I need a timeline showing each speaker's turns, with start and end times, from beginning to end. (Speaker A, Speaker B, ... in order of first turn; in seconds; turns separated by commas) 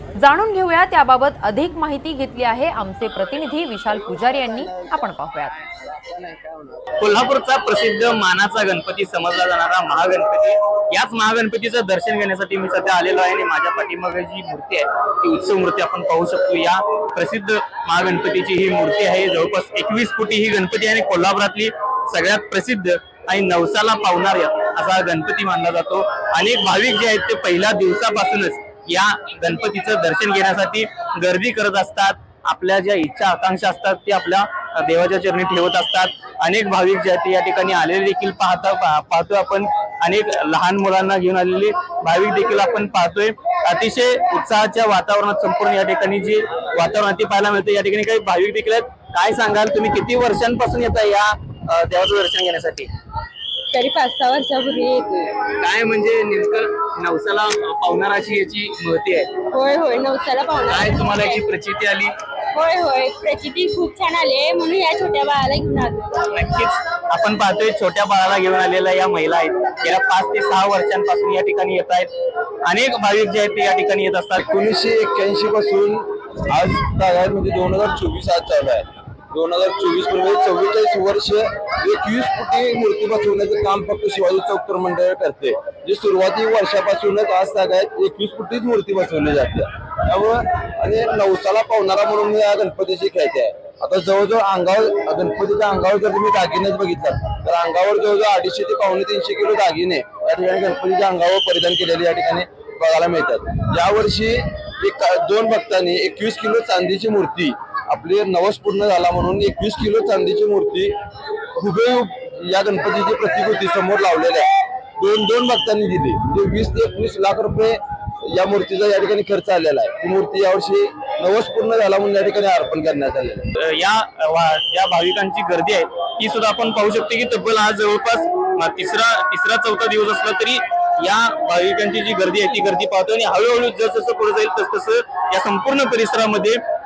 Speaker A: 0.2-5.6, Speaker B: 6.0-6.7, Speaker C: 7.0-52.9, Speaker D: 53.7-55.4, Speaker C: 55.5-59.3, Speaker D: 59.5-61.4, Speaker C: 60.7-62.1, Speaker D: 62.5-66.2, Speaker C: 66.3-72.1, Speaker C: 72.7-74.4, Speaker B: 74.4-110.9, Speaker B: 111.5-123.5, Speaker C: 123.5-136.6